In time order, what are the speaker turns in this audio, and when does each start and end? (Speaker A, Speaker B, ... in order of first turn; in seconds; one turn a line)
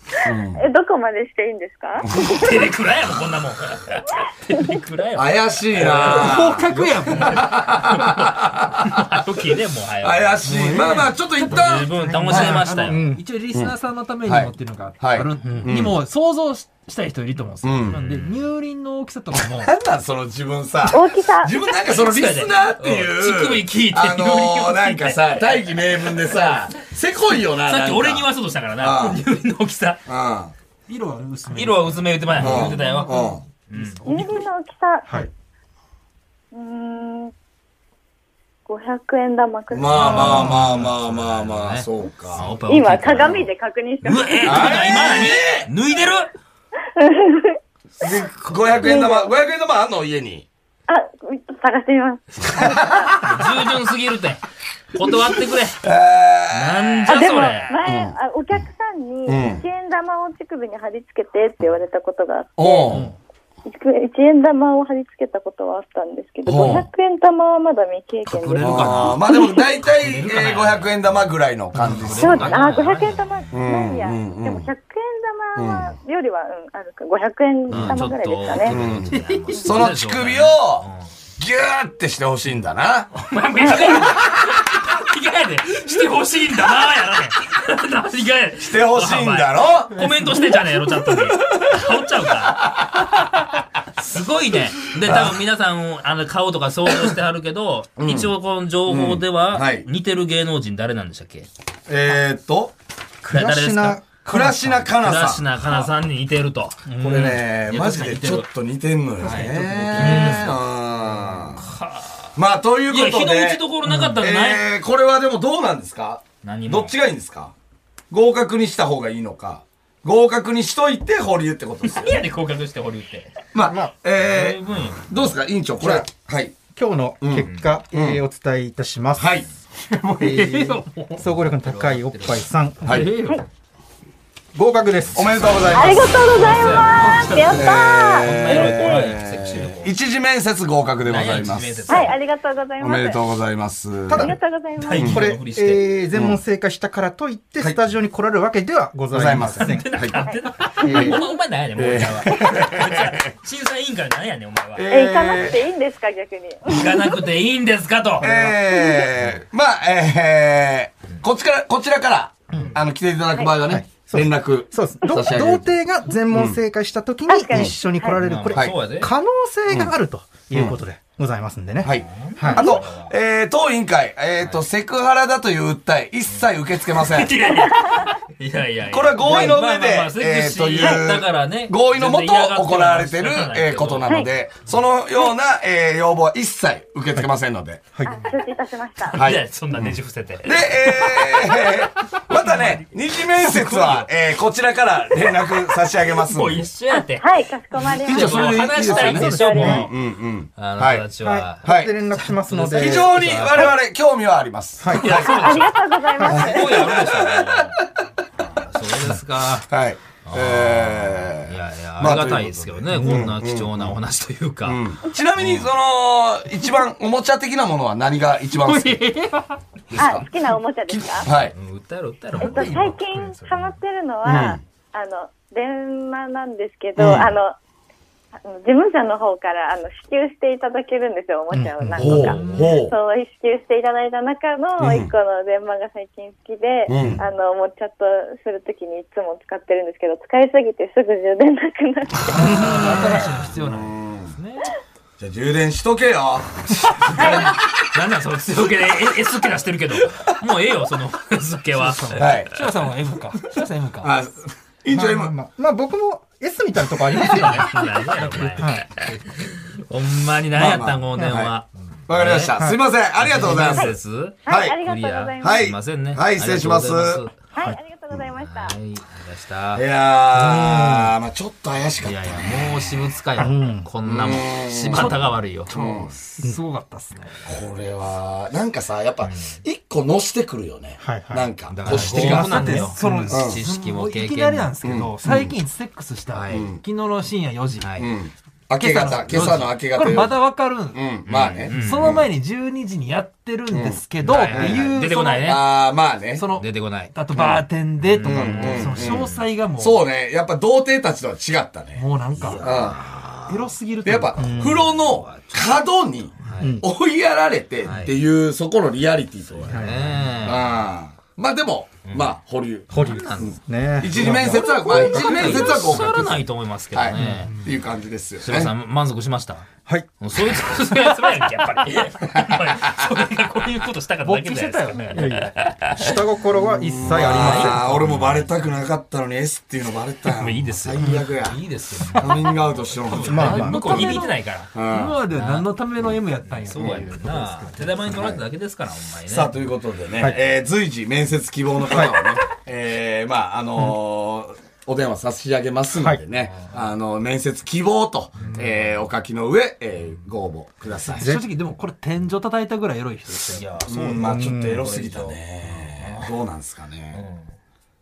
Speaker A: 0.2-0.6
Speaker B: 0.5-2.1
Speaker C: 2.1-6.4
Speaker A: 5.2-9.0
Speaker D: 5.8-7.5
Speaker C: 7.1-8.2
Speaker C: 8.8-13.0
Speaker A: 10.0-12.7
Speaker D: 10.4-19.7
Speaker E: 12.8-13.2
Speaker A: 14.2-16.0
Speaker E: 15.4-15.7
Speaker A: 17.6-18.0
Speaker C: 17.9-18.4
Speaker A: 19.5-28.3
Speaker B: 20.9-21.5
Speaker C: 21.7-26.6
Speaker C: 27.7-30.0
Speaker A: 28.8-29.2
Speaker A: 30.1-30.5
Speaker D: 30.9-34.2
Speaker C: 31.5-34.0
Speaker A: 32.4-33.4
Speaker B: 34.0-35.3
Speaker B: 36.5-37.3
Speaker B: 38.6-40.5
Speaker A: 39.7-42.5
Speaker C: 39.9-43.5
Speaker E: 40.2-40.9
Speaker B: 42.6-44.9
Speaker C: 44.0-46.3
Speaker A: 44.4-45.7
Speaker B: 46.9-48.1
Speaker A: 48.0-50.5
Speaker B: 48.8-49.3
Speaker B: 50.9-53.0
Speaker A: 52.5-53.4
Speaker C: 53.2-55.8
Speaker A: 55.8-58.1
Speaker C: 56.5-57.7
Speaker B: 57.1-63.0
Speaker A: 59.3-59.6
Speaker A: 62.6-63.1
Speaker B: 63.6-69.6
Speaker A: 66.5-66.9
Speaker D: 68.2-69.3
Speaker C: 68.6-69.2
Speaker A: 68.6-72.5
Speaker C: 69.9-73.5
Speaker E: 71.7-72.0
Speaker B: 72.1-78.8
Speaker A: 73.5-74.7
Speaker A: 75.5-75.9
Speaker C: 77.7-81.1
Speaker A: 77.7-78.0
Speaker A: 78.6-83.1
Speaker D: 79.1-79.8
Speaker C: 83.1-92.7
Speaker B: 83.6-84.2
Speaker A: 88.6-90.1
Speaker A: 91.4-91.8
Speaker A: 92.6-93.0
Speaker C: 94.0-101.5
Speaker A: 95.0-95.4
Speaker A: 98.0-98.3
Speaker A: 98.9-99.9
Speaker A: 101.9-102.7
Speaker E: 103.2-104.9
Speaker C: 103.2-104.1
Speaker A: 104.2-105.9
Speaker C: 104.9-108.5
Speaker E: 106.9-107.4
Speaker A: 107.0-111.6
Speaker D: 109.2-110.6
Speaker C: 109.2-110.5
Speaker C: 111.6-112.3
Speaker A: 112.3-113.6
Speaker C: 112.9-114.6
Speaker E: 113.9-114.2
Speaker A: 114.2-117.5
Speaker C: 116.4-116.9
Speaker A: 118.1-122.2
Speaker C: 121.8-123.3
Speaker A: 123.5-126.5
Speaker E: 123.6-123.9
Speaker C: 124.1-125.3
Speaker E: 125.8-126.1
Speaker E: 126.7-129.4
Speaker A: 127.2-128.2
Speaker A: 129.2-129.5
Speaker D: 129.8-131.2
Speaker E: 130.2-133.1
Speaker C: 131.2-132.4
Speaker A: 132.8-133.2
Speaker D: 132.9-133.4
Speaker E: 134.5-135.6
Speaker C: 135.1-139.9
Speaker A: 135.1-136.3
Speaker B: 135.7-139.1
Speaker D: 137.0-137.5
Speaker A: 137.5-142.1
Speaker C: 141.0-142.2
Speaker B: 141.9-143.2
Speaker A: 142.8-144.3
Speaker E: 144.1-144.4
Speaker B: 144.1-145.2
Speaker C: 144.8-145.9
Speaker A: 145.0-145.2
Speaker E: 145.0-150.0
Speaker A: 149.1-150.2
Speaker C: 149.6-154.8
Speaker B: 150.2-151.2
Speaker E: 150.8-151.2
Speaker A: 150.8-151.2
Speaker A: 151.8-153.2
Speaker A: 154.8-155.6
Speaker B: 154.9-157.2
Speaker C: 156.7-158.3
Speaker A: 158.2-165.7
Speaker E: 158.2-158.6
Speaker E: 163.6-172.6
Speaker A: 166.3-166.6
Speaker B: 167.3-168.2
Speaker C: 168.2-169.1
Speaker A: 168.5-168.8
Speaker A: 170.5-170.8
Speaker A: 171.8-177.4
Speaker C: 171.9-173.1
Speaker B: 172.5-172.8
Speaker C: 176.3-184.3
Speaker B: 177.6-178.1
Speaker A: 178.8-187.8
Speaker E: 187.9-188.2
Speaker B: 188.0-189.2
Speaker C: 189.1-191.4
Speaker A: 189.1-196.7
Speaker C: 193.4-194.1
Speaker C: 196.2-200.0
Speaker B: 196.9-199.9
Speaker A: 198.0-201.1
Speaker E: 199.0-199.9
Speaker C: 200.6-203.8
Speaker E: 201.2-203.2
Speaker A: 201.6-201.9
Speaker A: 202.7-205.7
Speaker E: 204.8-205.2
Speaker C: 204.9-207.8
Speaker B: 205.0-207.0
Speaker E: 206.2-206.5
Speaker A: 206.3-207.8
Speaker C: 208.4-209.7
Speaker A: 209.6-214.0
Speaker C: 210.2-214.8
Speaker A: 214.6-219.1
Speaker C: 215.4-215.7
Speaker D: 218.6-219.6
Speaker A: 219.9-220.3
Speaker B: 219.9-221.3
Speaker A: 220.9-221.5
Speaker C: 221.4-223.7
Speaker B: 222.4-227.6
Speaker D: 222.4-222.9
Speaker A: 224.2-224.6
Speaker A: 227.0-227.3
Speaker B: 228.4-242.6
Speaker E: 231.8-232.3
Speaker A: 232.0-232.9
Speaker D: 232.2-232.6
Speaker A: 234.8-235.1
Speaker A: 236.9-237.2
Speaker A: 242.3-244.3
Speaker D: 242.3-244.0
Speaker C: 242.4-243.5
Speaker C: 244.4-244.7
Speaker A: 245.2-247.5
Speaker C: 247.1-252.4
Speaker B: 247.1-247.5
Speaker D: 251.8-254.2
Speaker A: 252.2-252.6
Speaker A: 254.0-255.3
Speaker E: 254.9-257.8
Speaker A: 257.1-257.5
Speaker C: 257.2-262.5
Speaker D: 257.7-259.3
Speaker E: 258.6-258.9
Speaker A: 260.5-261.5
Speaker E: 261.1-261.5
Speaker A: 262.1-264.8
Speaker C: 263.2-267.3
Speaker B: 264.4-265.6
Speaker A: 265.4-267.2
Speaker B: 267.5-268.8
Speaker C: 268.4-269.8
Speaker A: 269.7-273.0
Speaker E: 270.3-271.1
Speaker C: 272.0-275.7
Speaker E: 273.4-273.9
Speaker A: 274.0-276.1
Speaker D: 274.9-277.5
Speaker A: 277.5-283.6
Speaker C: 279.2-279.6
Speaker E: 281.0-283.4
Speaker C: 281.7-284.7
Speaker D: 281.9-288.0
Speaker A: 284.8-285.6
Speaker C: 286.3-286.6
Speaker A: 286.5-286.8
Speaker C: 287.8-288.1
Speaker A: 288.0-292.2
Speaker D: 288.8-291.1
Speaker C: 291.3-292.2
Speaker D: 291.7-295.5
Speaker A: 293.7-294.0
Speaker C: 294.2-295.7
Speaker A: 294.5-294.9
Speaker A: 295.4-296.5
Speaker D: 296.3-300.0
Speaker C: 296.6-299.4
Speaker A: 297.3-297.6
Speaker A: 298.2-302.1
Speaker D: 301.9-302.9
Speaker C: 302.4-303.2
Speaker A: 302.6-318.7
Speaker D: 303.5-304.8
Speaker E: 304.4-304.9
Speaker C: 304.6-305.8
Speaker C: 306.4-306.7
Speaker E: 306.6-306.9
Speaker C: 307.8-308.1
Speaker C: 309.5-310.7
Speaker E: 309.7-310.2
Speaker C: 312.0-312.3
Speaker E: 312.9-316.1
Speaker C: 312.9-313.6
Speaker C: 314.1-317.5
Speaker E: 317.2-317.5
Speaker D: 317.5-317.7
Speaker C: 318.4-319.7
Speaker C: 320.2-326.1
Speaker D: 324.2-325.5
Speaker E: 325.1-328.1
Speaker A: 326.5-331.6
Speaker C: 327.1-328.6
Speaker C: 330.3-334.8
Speaker D: 332.0-332.4
Speaker A: 332.2-334.2
Speaker D: 333.1-338.0
Speaker E: 333.2-334.1
Speaker A: 334.7-335.2
Speaker C: 335.3-335.7
Speaker C: 336.5-339.5
Speaker A: 336.8-337.1
Speaker A: 338.0-338.4
Speaker A: 339.3-351.2
Speaker E: 341.9-342.2
Speaker E: 345.9-346.2
Speaker C: 348.4-348.9
Speaker E: 351.2-351.4
Speaker D: 351.2-353.9
Speaker C: 353.3-356.3
Speaker A: 353.9-357.2
Speaker E: 354.2-354.8
Speaker C: 357.1-357.5